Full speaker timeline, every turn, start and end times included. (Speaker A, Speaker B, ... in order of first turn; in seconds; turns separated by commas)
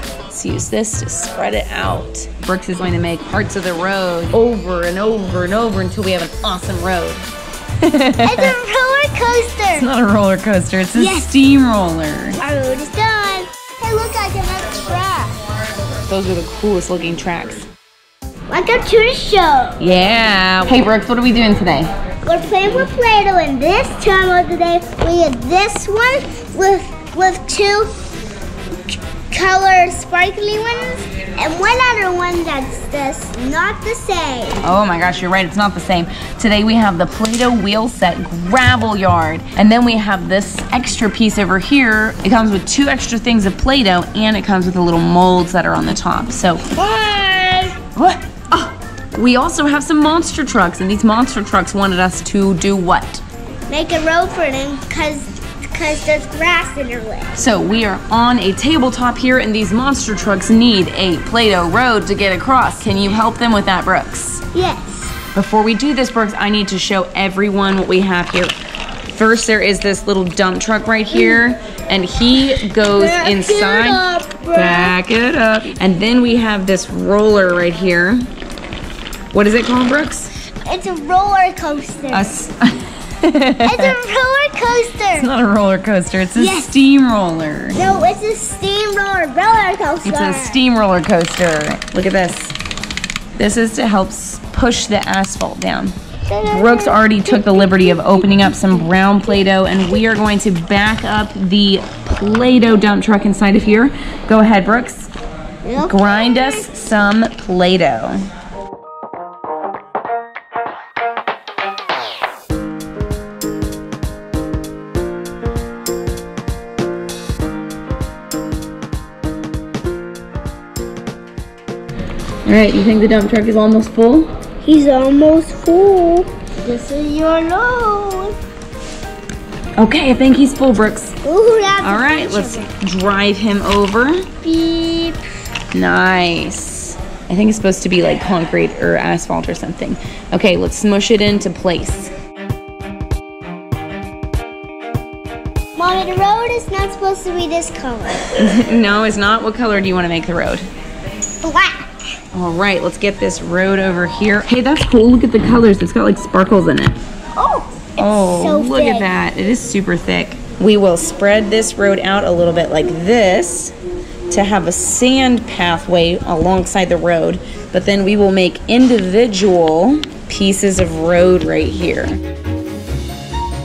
Speaker A: 0.3-7.2, Speaker A: 7.8-8.6, Speaker B: 8.2-9.9, Speaker A: 9.7-12.4, Speaker B: 10.9-11.3, Speaker B: 12.4-15.4, Speaker A: 16.0-17.7, Speaker B: 18.5-19.8, Speaker A: 19.8-21.9, Speaker B: 22.2-27.9, Speaker B: 28.9-34.6, Speaker A: 34.6-46.7, Speaker B: 46.7-47.8, Speaker A: 47.9-53.2, Speaker B: 53.7-57.3, Speaker A: 57.4-64.4, Speaker B: 64.5-65.2, Speaker A: 65.3-68.5, Speaker A: 69.1-78.3, Speaker B: 72.7-75.0, Speaker A: 79.3-80.3, Speaker B: 80.7-82.3, Speaker A: 82.1-84.0, Speaker B: 83.6-85.3, Speaker A: 85.1-87.8, Speaker B: 86.4-86.7, Speaker B: 87.7-90.6, Speaker A: 90.0-92.6, Speaker A: 93.4-96.0, Speaker B: 96.3-98.9, Speaker A: 96.5-105.1, Speaker B: 105.6-106.7, Speaker A: 105.8-108.2, Speaker A: 122.5-124.3, Speaker B: 124.6-128.4, Speaker A: 129.8-131.2, Speaker B: 131.2-132.7, Speaker A: 131.8-134.3, Speaker B: 134.4-135.2, Speaker A: 135.7-142.1, Speaker B: 145.8-148.3, Speaker A: 148.3-150.6, Speaker B: 151.4-152.0, Speaker A: 152.3-157.0, Speaker B: 157.3-159.1, Speaker A: 158.0-163.8, Speaker A: 164.3-172.2